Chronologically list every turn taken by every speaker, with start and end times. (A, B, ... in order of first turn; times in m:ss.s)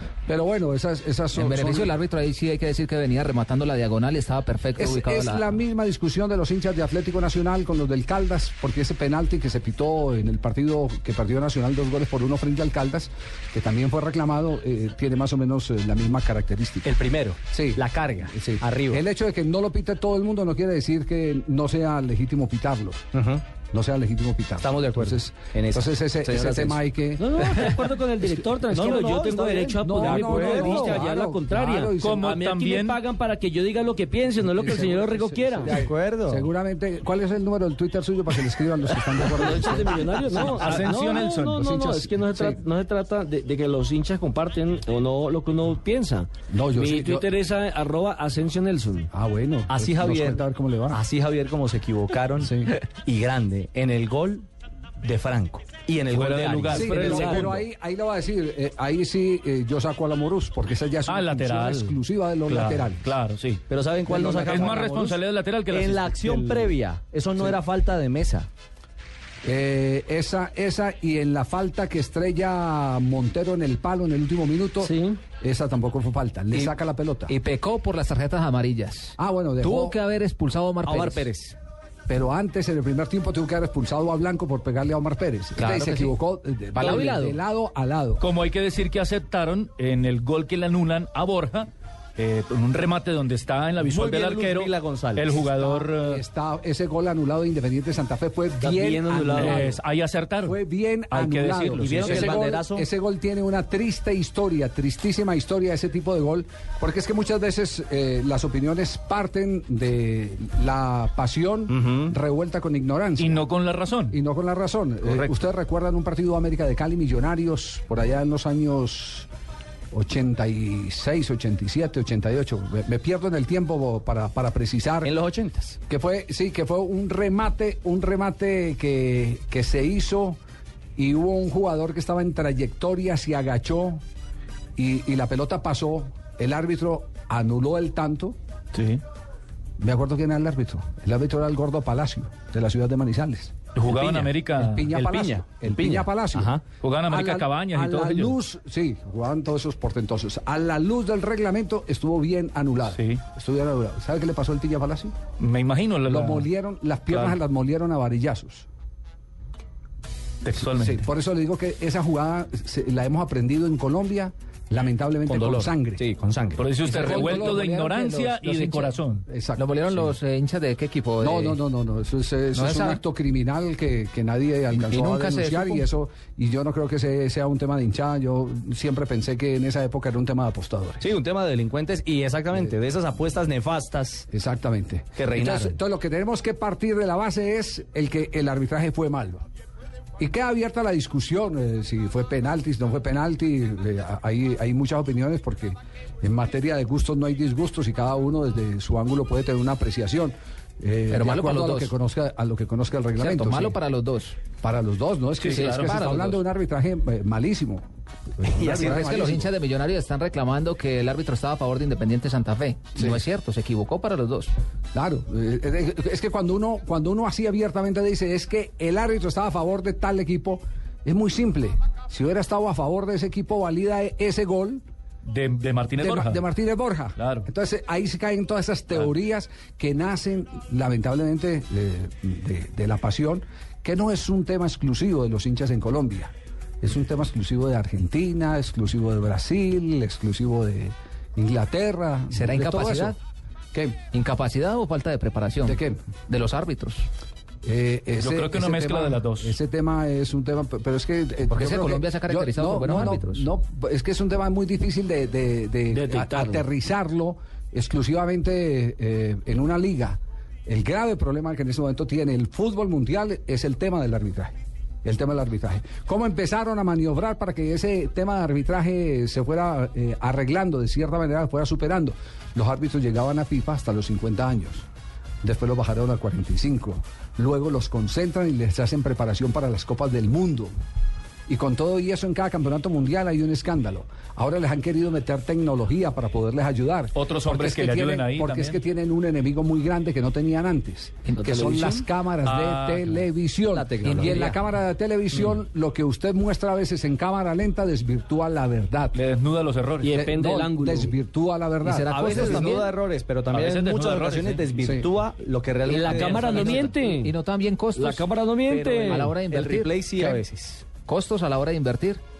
0:00.3-0:01.9 A
0:01.3-0:05.5 B
0:04.8-0:16.9 A
0:16.8-0:19.0 C
0:17.5-0:23.0 A
0:23.1-0:23.4 C
0:23.7-0:27.6 A
0:24.6-0:26.8 C
0:27.2-0:35.7 D
0:28.7-0:31.0 C
0:29.8-0:32.3 A
0:30.0-0:31.1 E
0:31.9-0:33.0 E
0:34.4-0:42.6 A
0:35.6-0:36.5 C
0:39.3-0:49.1 D
0:40.4-0:41.7 E
0:46.5-0:47.3 A
0:49.1-0:51.0 A
0:49.7-0:54.5 C
0:52.4-0:52.7 A
0:55.0-0:57.2 C
0:56.0-0:57.6 E
0:56.7-1:03.2 A
0:57.0-0:57.4 D
1:01.1-1:06.7 E
1:03.7-1:05.2 C
1:05.7-1:08.5 C
1:09.4-1:17.4 A
1:14.8-1:15.2 D
1:17.3-1:21.3 B
1:19.2-1:20.0 A
1:20.8-1:21.6 C
1:22.1-1:28.2 A
1:25.6-1:26.1 B
1:26.7-1:27.4 B
1:26.8-1:27.1 C
1:28.2-1:36.2 E
1:33.8-1:35.4 C
1:35.4-1:39.8 A
1:38.6-1:39.8 D
1:39.3-1:40.6 E
1:40.4-1:53.5 A
1:41.1-1:42.5 E
1:41.8-1:42.9 C
1:51.7-1:52.1 C
1:53.2-1:54.2 E
1:54.1-1:59.3 A
1:55.1-1:55.3 E
1:59.9-2:05.1 A
2:05.0-2:05.8 C
2:05.9-2:10.4 A
2:11.0-2:14.0 A
2:14.8-2:18.4 A
2:18.7-2:19.0 E
2:19.8-2:23.6 A
2:23.8-2:25.2 E
2:23.8-2:24.3 C
2:24.6-2:35.2 A
2:24.9-2:26.6 C
2:26.7-2:28.4 E
2:32.9-2:33.2 E
2:35.4-2:36.5 E
2:36.1-2:38.7 A
2:37.1-2:37.4 E
2:40.4-2:41.0 E
2:40.6-2:46.0 A
2:45.2-2:46.7 C
2:46.6-2:49.2 E
2:46.8-2:47.9 A
2:46.9-2:49.0 B
2:49.3-2:50.1 A
2:49.6-2:51.6 B
2:51.2-3:01.1 A
2:52.5-2:53.0 B
2:54.7-2:55.9 B
3:01.0-3:04.3 C
3:04.3-3:09.4 A
3:05.2-3:05.8 C
3:10.2-3:23.8 A
3:21.1-3:21.9 B
3:23.2-3:24.4 B
3:24.6-3:27.9 A
3:25.4-3:26.3 E
3:25.5-3:26.4 B
3:28.4-3:29.5 A
3:28.6-3:29.4 C
3:28.8-3:34.5 B
3:33.0-3:33.2 A
3:34.9-3:44.8 A
3:45.2-3:46.4 E
3:46.0-4:03.2 A
3:47.2-3:47.5 E
4:02.3-4:03.2 B
4:03.7-4:04.0 A
4:04.1-4:07.1 B
4:05.6-4:06.0 A
4:07.6-4:34.9 A
4:08.2-4:09.6 E
4:11.5-4:13.5 B
4:15.9-4:16.6 D
4:35.4-4:40.7 A
4:41.5-4:59.2 A
4:47.2-4:48.8 E
4:51.4-4:52.0 B
4:51.5-4:51.9 D
4:52.4-4:53.3 E
4:53.7-4:54.6 C
4:59.2-5:00.2 E
5:00.0-5:01.1 D
5:00.1-5:02.7 A
5:01.8-5:02.9 B
5:02.1-5:06.9 C
5:03.5-5:04.6 E
5:04.8-5:05.1 A
5:05.8-5:07.3 D
5:06.0-5:06.9 E
5:06.9-5:08.3 B
5:08.0-5:09.2 D
5:08.7-5:10.8 C
5:09.0-5:10.4 B
5:11.1-5:12.2 B